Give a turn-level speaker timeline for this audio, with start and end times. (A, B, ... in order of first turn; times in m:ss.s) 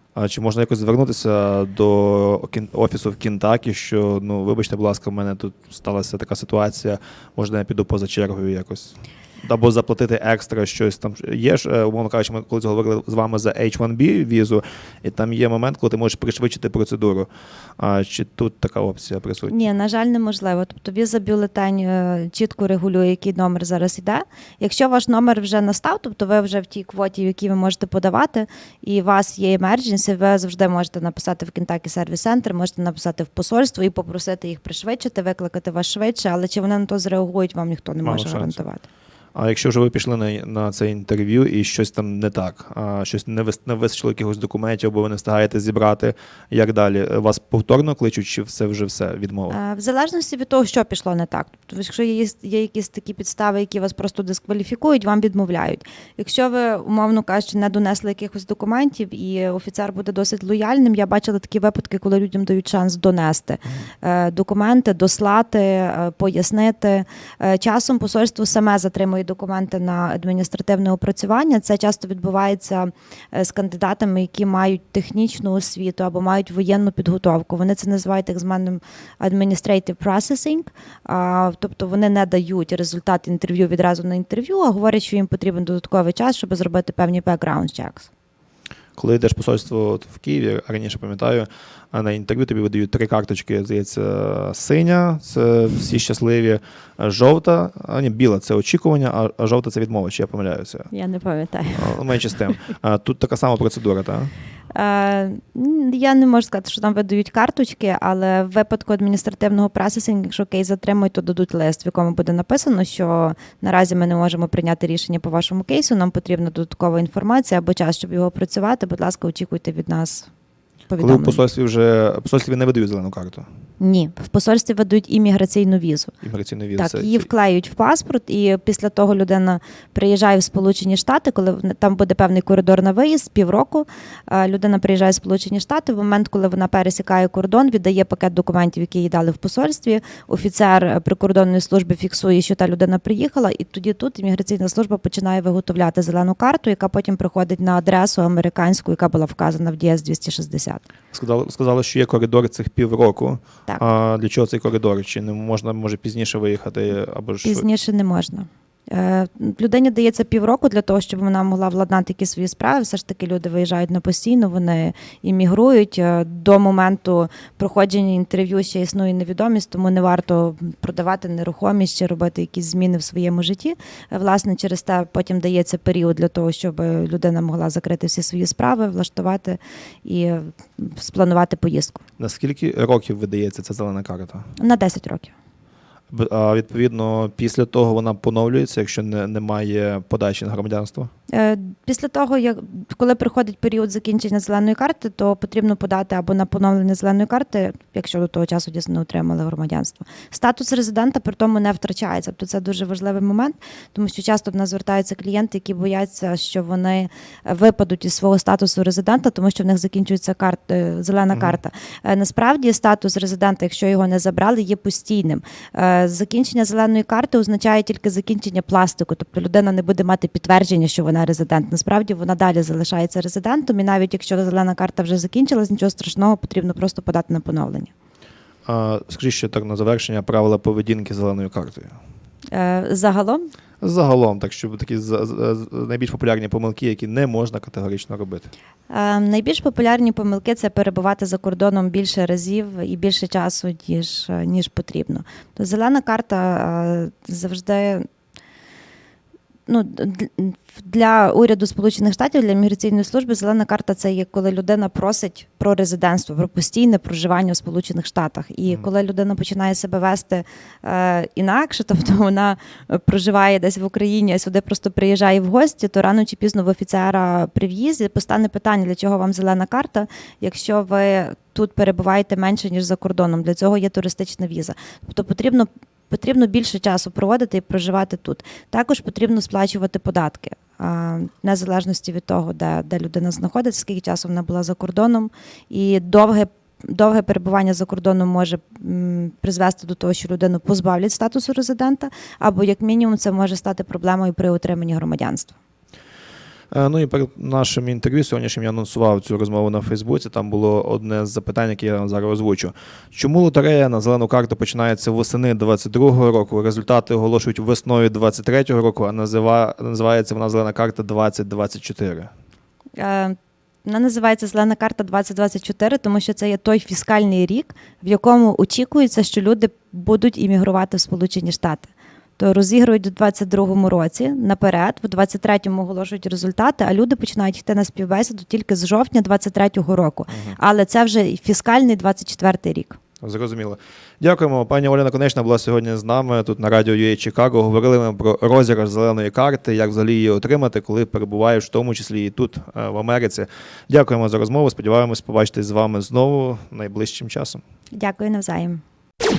0:00.2-0:19.5 A
0:19.4-0:38.8 B
0:38.0-0:38.6 A
0:39.3-0:49.6 A
0:49.5-1:28.1 B
1:29.0-1:40.9 A
1:40.9-1:42.1 B
1:41.7-1:44.3 A
1:44.7-2:00.3 B
2:00.9-2:01.4 B
2:01.0-2:03.5 A
2:03.8-2:06.1 B
2:06.2-2:07.3 A
2:06.8-2:30.8 B
2:31.1-2:37.6 A
2:37.4-3:02.0 B
3:02.2-3:04.5 A
3:04.6-3:05.3 B
3:06.1-3:11.1 A
3:11.3-3:47.9 B
3:31.3-3:31.6 A
3:48.6-3:52.0 A
3:52.5-3:53.5 B
3:53.8-3:58.5 A
3:58.9-4:08.1 B
4:09.7-4:55.5 B
4:56.7-5:12.3 A
5:13.0-5:33.0 B
5:30.3-5:30.6 A
5:33.2-5:47.6 A
5:47.9-5:48.8 B